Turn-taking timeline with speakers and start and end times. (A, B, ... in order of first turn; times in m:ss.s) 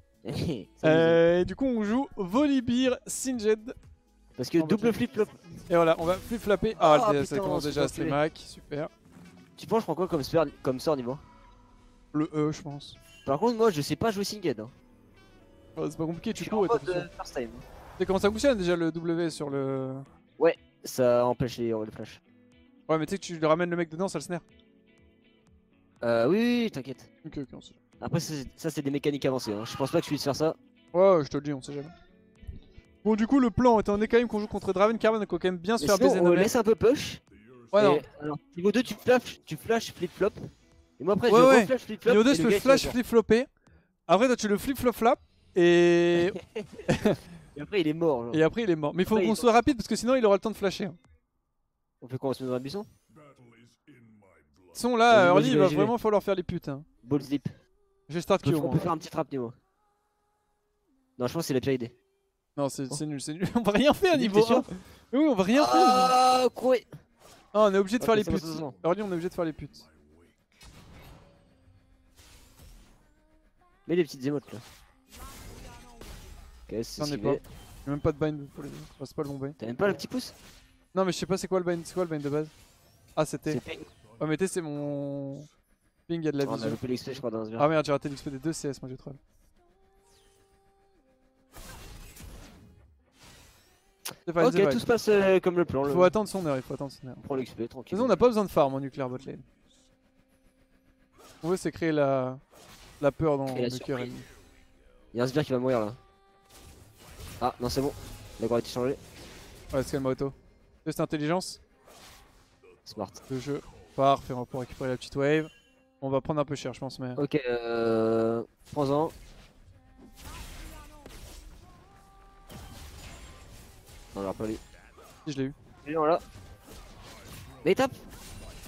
0:00.2-0:01.2 A
0:00.8-0:03.8 B
0:04.4-0:05.4 A
0:04.6-0:05.0 B
0:05.7-0:08.9 B
0:06.8-0:08.2 A
0:09.6-0:11.2 A
0:12.1-0:13.0 B
0:13.3-0:14.7 A
0:15.8-0:17.1 B
0:16.4-0:17.6 A
0:18.0-0:20.1 B
0:20.4-0:22.2 A
0:22.9-0:24.4 B
0:26.0-0:27.1 A
0:27.2-0:27.8 B
0:28.0-0:30.6 A
0:30.9-0:31.9 B
0:33.0-0:36.5 B
0:35.8-0:37.2 A
0:37.7-0:38.0 B
0:37.7-0:40.4 A
0:41.0-0:43.0 A
0:41.3-0:43.5 B
0:44.1-0:46.4 B
0:46.3-0:46.8 A
0:46.9-0:47.2 B
0:47.6-0:48.4 A
0:48.3-0:51.0 B
0:49.1-0:49.5 A
0:52.0-0:52.9 A
0:54.7-0:56.9 B
0:55.1-0:55.9 A
0:57.0-0:57.5 A
0:58.1-0:58.9 B
0:58.4-0:59.6 A
1:01.2-1:01.9 A
1:02.6-1:06.2 B
1:04.1-1:04.7 A
1:05.5-1:06.9 A
1:07.5-1:09.9 B
1:08.0-1:08.7 A
1:13.9-1:14.6 A
1:16.7-1:17.4 A
1:17.0-1:19.6 B
1:19.6-1:20.3 A
1:20.9-1:22.5 B
1:23.2-1:23.6 B
1:23.5-1:23.9 A
1:24.2-1:25.5 B
1:26.1-1:26.8 B
1:26.4-1:27.7 A
1:27.6-1:29.2 B
1:34.3-1:34.8 B
1:34.4-1:36.1 A
1:35.9-1:37.2 B
1:37.2-1:38.1 A
1:37.9-1:39.4 B
1:41.4-1:42.4 B
1:43.0-1:44.3 B
1:43.5-1:44.1 A
1:45.1-1:46.0 A
1:47.4-1:49.0 A
1:49.7-1:51.6 B
1:52.9-1:53.2 A
1:53.3-1:57.2 B
1:57.2-1:59.1 A
2:04.2-2:04.6 A
2:05.3-2:05.6 B
2:05.8-2:06.2 A
2:07.6-2:08.0 A